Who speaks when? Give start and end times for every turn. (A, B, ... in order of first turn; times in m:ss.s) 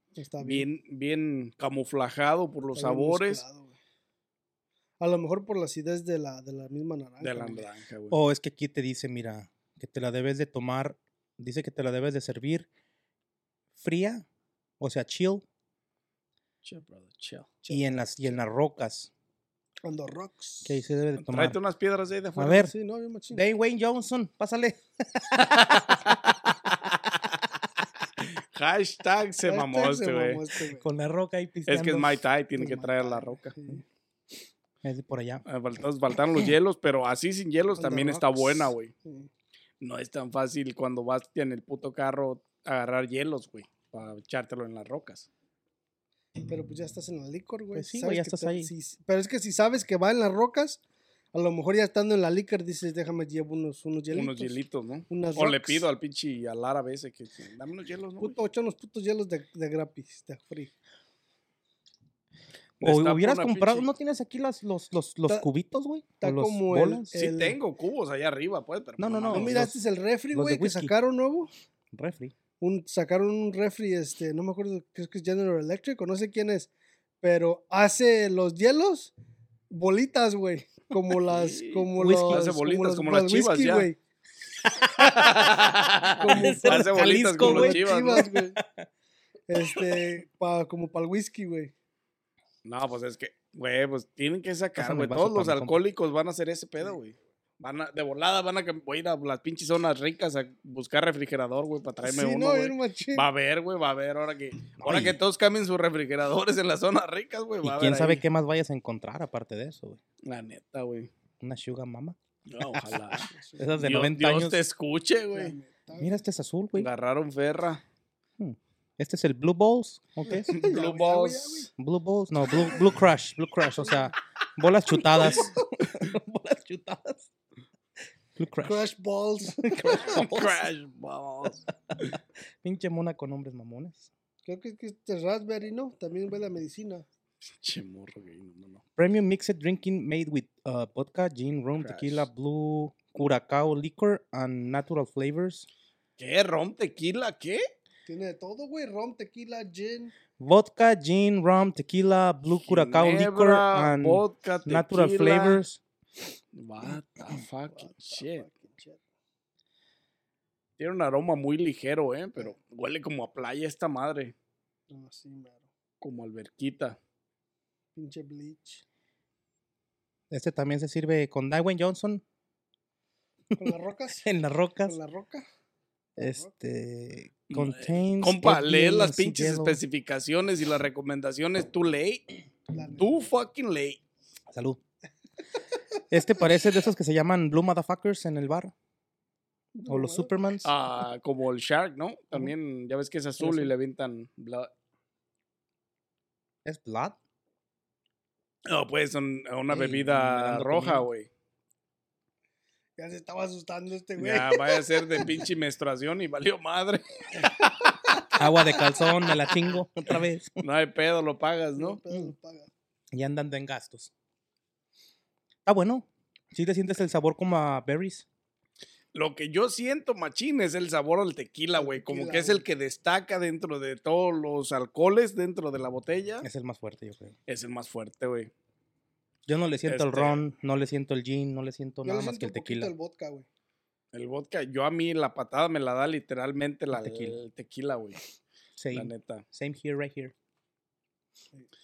0:00.2-0:00.7 A
0:00.4-0:03.4 B
0:02.7-0:03.8 A
0:05.0-0:07.7 A
0:07.2-0:08.2 B
0:08.1-0:12.7 C
0:13.8-0:14.2 C
0:14.8-0:15.4 C
0:16.6-0:17.6 B
0:17.6-0:18.4 A
0:17.7-0:19.1 C
0:19.8-0:20.8 A
0:20.6-0:21.6 C
0:21.2-0:22.7 B
0:22.4-0:22.7 C
0:22.5-0:23.4 A
0:23.3-0:26.0 C
0:25.6-0:27.4 B
0:28.3-0:30.4 B
0:29.4-0:30.9 A
0:30.8-0:32.2 C
0:31.7-0:33.6 B
0:32.6-0:33.8 A
0:34.8-0:35.4 C
0:35.4-0:38.9 B
0:37.7-0:39.3 A
0:39.8-0:45.3 B
0:46.4-0:50.8 A
0:47.7-0:48.7 C
0:51.3-0:55.9 A
0:54.1-0:58.4 B
0:58.2-1:00.7 A
1:02.8-1:03.9 B
1:02.8-1:07.1 C
1:06.2-1:07.6 A
1:07.1-1:09.6 B
1:09.0-1:09.8 C
1:09.3-1:11.5 A
1:10.3-1:10.9 C
1:11.9-1:12.3 C
1:12.6-1:16.7 A
1:17.2-1:19.1 A
1:19.7-1:24.0 A
1:21.3-1:23.9 B
1:22.0-1:22.4 C
1:24.8-1:25.5 C
1:25.0-1:28.2 B
1:26.2-1:28.6 A
1:26.2-1:28.9 C
1:29.5-1:31.7 A
1:32.6-1:48.2 B
1:34.8-1:35.8 C
1:42.0-1:43.2 A
1:44.8-1:45.2 C
1:47.6-1:50.0 C
1:50.2-1:51.1 B
1:51.4-1:54.6 C
1:52.5-1:55.5 B
1:53.3-1:53.7 A
1:55.3-1:56.2 A
1:56.0-1:56.9 C
1:56.8-1:57.8 B
1:58.4-2:00.5 C
2:00.3-2:01.7 A
2:00.5-2:01.7 B
2:01.8-2:07.3 C
2:05.2-2:05.6 A
2:08.4-2:08.9 C
2:08.6-2:10.2 A
2:09.6-2:10.6 C
2:10.0-2:12.1 B
2:12.6-2:14.1 C
2:14.4-2:17.0 A
2:17.6-2:18.8 B
2:19.0-2:25.7 C
2:21.8-2:22.3 B
2:26.2-2:27.7 B
2:28.0-2:30.1 A
2:30.4-2:35.8 C
2:32.6-2:35.6 B
2:36.5-2:38.5 B
2:37.7-2:39.0 A
2:40.8-2:44.3 B
2:44.9-2:45.7 A
2:46.0-2:47.0 B
2:47.9-2:48.8 A
2:50.3-2:52.2 C
2:53.6-2:54.3 A
2:54.2-2:55.0 C
2:54.8-2:55.4 A
2:56.2-2:56.5 A
2:56.2-2:59.8 C
2:57.5-3:02.2 B
3:02.7-3:03.2 A
3:03.0-3:04.0 B
3:04.5-3:04.8 C
3:06.1-3:08.7 C
3:09.7-3:10.3 A
3:09.9-3:10.7 C
3:10.6-3:14.7 B
3:13.4-3:13.7 C
3:16.6-3:17.2 C
3:18.7-3:21.3 B
3:19.7-3:21.1 C
3:23.0-3:25.3 A
3:24.2-3:27.9 B
3:28.2-3:28.7 A
3:28.4-3:30.6 C
3:30.6-3:32.0 B
3:31.8-3:32.7 A
3:33.1-3:34.1 C
3:35.6-3:38.2 C
3:39.1-3:46.5 B
3:41.7-3:42.6 A
3:46.4-3:47.3 C
3:47.5-3:48.5 B
3:49.5-3:52.9 C
3:49.8-3:50.4 B
3:52.0-3:53.4 A
3:54.1-3:58.2 B
3:56.9-3:57.4 C
3:58.8-4:00.3 C
3:58.9-3:59.4 B